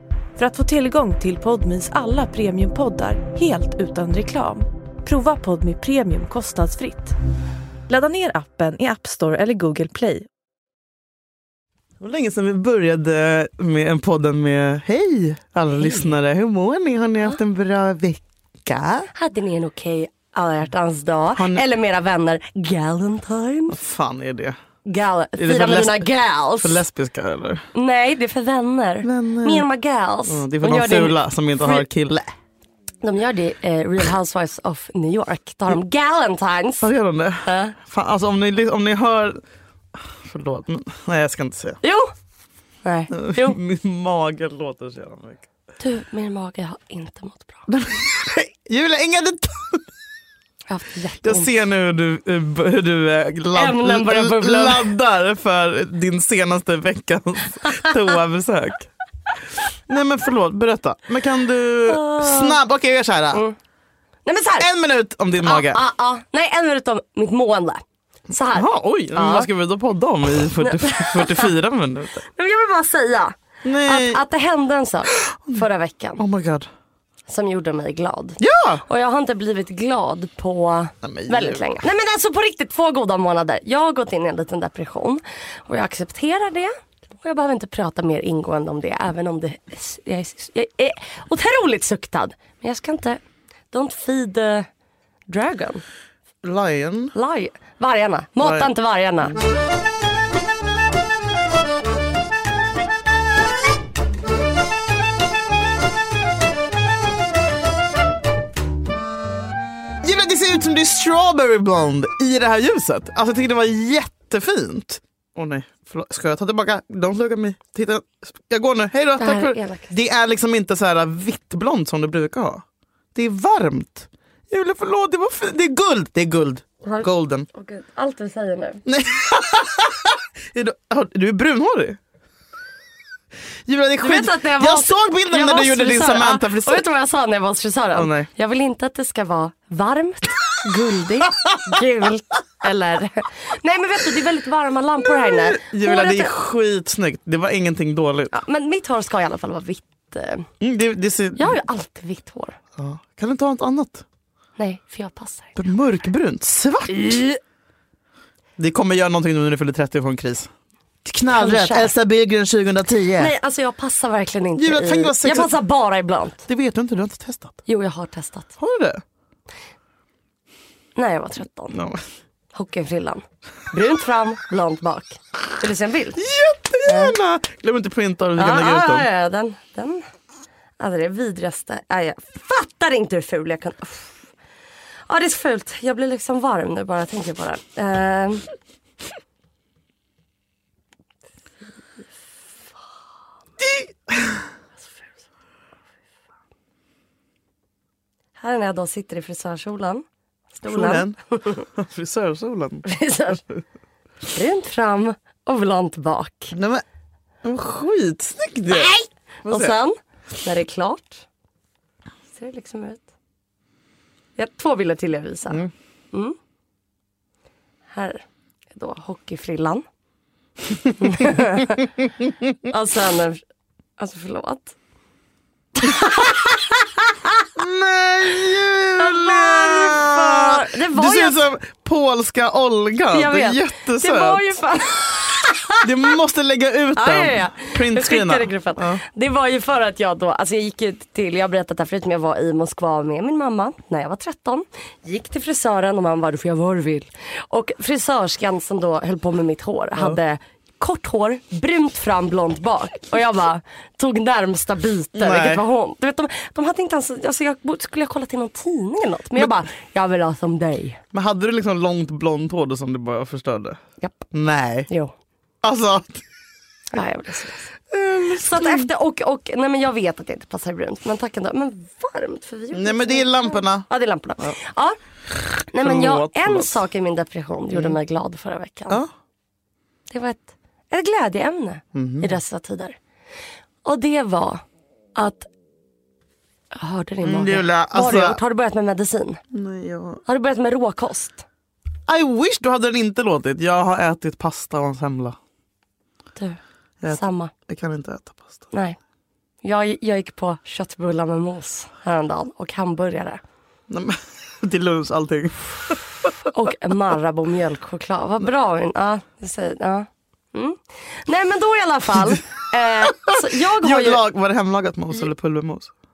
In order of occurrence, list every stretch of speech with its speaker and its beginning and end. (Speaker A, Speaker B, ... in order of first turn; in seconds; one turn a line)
Speaker A: 0.3-7.1
Speaker A: 7.9-10.3
Speaker B: 12.0-19.1
Speaker C: 15.8-16.1
Speaker C: 19.1-23.8
Speaker B: 21.3-21.6
Speaker B: 23.7-24.6
Speaker C: 24.9-26.8
Speaker B: 25.4-27.6
Speaker C: 27.7-31.8
Speaker B: 29.0-29.7
Speaker B: 30.3-32.3
Speaker C: 33.0-36.9
Speaker B: 36.8-39.4
Speaker C: 37.4-37.8
Speaker B: 39.9-41.8
Speaker C: 41.8-42.1
Speaker C: 42.8-43.6
Speaker B: 43.1-45.5
Speaker C: 45.8-47.7
Speaker B: 47.7-49.9
Speaker C: 50.7-51.5
Speaker B: 51.2-58.9
Speaker C: 53.5-54.9
Speaker B: 59.9-63.4
Speaker C: 61.9-62.6
Speaker C: 64.2-64.7
Speaker B: 64.6-65.8
Speaker C: 65.4-69.5
Speaker B: 68.5-72.2
Speaker C: 70.6-71.5
Speaker C: 72.3-76.2
Speaker B: 73.6-74.2
Speaker B: 75.2-75.6
Speaker B: 76.2-76.7
Speaker C: 77.3-94.7
Speaker B: 78.4-78.8
Speaker B: 81.0-81.6
Speaker C: 95.3-95.8
Speaker B: 96.4-97.1
Speaker C: 97.1-99.4
Speaker B: 98.4-98.7
Speaker B: 110.0-122.6
Speaker C: 119.2-119.9
Speaker B: 123.1-127.5
Speaker C: 126.8-128.8
Speaker B: 128.8-132.0
Speaker B: 133.7-136.8
Speaker C: 134.0-146.3
Speaker B: 137.9-138.3
Speaker B: 145.1-148.3
Speaker C: 148.3-150.5
Speaker B: 150.6-151.6
Speaker C: 151.3-152.6
Speaker B: 152.8-154.0
Speaker C: 154.6-155.6
Speaker B: 155.6-157.2
Speaker C: 156.9-157.4
Speaker B: 158.6-160.5
Speaker B: 161.0-163.3
Speaker C: 161.3-161.9
Speaker C: 163.2-166.4
Speaker B: 164.6-165.5
Speaker B: 166.5-167.6
Speaker C: 167.7-168.6
Speaker B: 168.6-169.0
Speaker C: 170.9-171.8
Speaker B: 171.7-172.0
Speaker C: 172.5-176.2
Speaker B: 176.2-179.1
Speaker C: 176.8-177.2
Speaker C: 178.4-180.0
Speaker C: 180.8-184.2
Speaker C: 185.1-188.4
Speaker B: 193.6-194.5
Speaker C: 198.3-200.0
Speaker C: 200.5-201.6
Speaker B: 200.6-202.9
Speaker C: 202.8-203.4
Speaker C: 204.3-206.6
Speaker B: 206.5-206.8
Speaker B: 207.4-208.9
Speaker C: 208.7-211.2
Speaker B: 209.4-209.8
Speaker C: 212.3-213.0
Speaker C: 214.3-216.3
Speaker C: 217.9-218.2
Speaker C: 218.7-219.8
Speaker C: 221.0-221.9
Speaker C: 222.7-223.4
Speaker C: 224.0-224.7
Speaker C: 225.8-227.4
Speaker B: 227.6-234.5
Speaker C: 228.9-231.4
Speaker C: 233.1-236.1
Speaker B: 235.8-239.0
Speaker C: 236.9-261.0
Speaker B: 255.1-255.6
Speaker B: 261.1-263.8
Speaker C: 264.0-264.3
Speaker B: 264.3-264.9
Speaker B: 265.6-266.2
Speaker C: 266.9-267.7
Speaker B: 267.9-268.9
Speaker C: 268.4-275.0
Speaker B: 272.7-273.9
Speaker B: 275.3-276.8
Speaker C: 275.7-279.0
Speaker C: 280.1-283.0
Speaker B: 281.9-282.4
Speaker C: 283.8-284.6
Speaker C: 285.1-285.5
Speaker C: 286.7-289.4
Speaker B: 287.2-288.4
Speaker B: 289.5-290.2
Speaker C: 290.2-291.4
Speaker B: 292.1-295.4
Speaker C: 296.4-297.5
Speaker B: 297.0-298.7
Speaker C: 298.7-299.0
Speaker C: 299.6-303.4
Speaker B: 303.9-306.3
Speaker C: 306.4-314.2
Speaker B: 313.1-315.9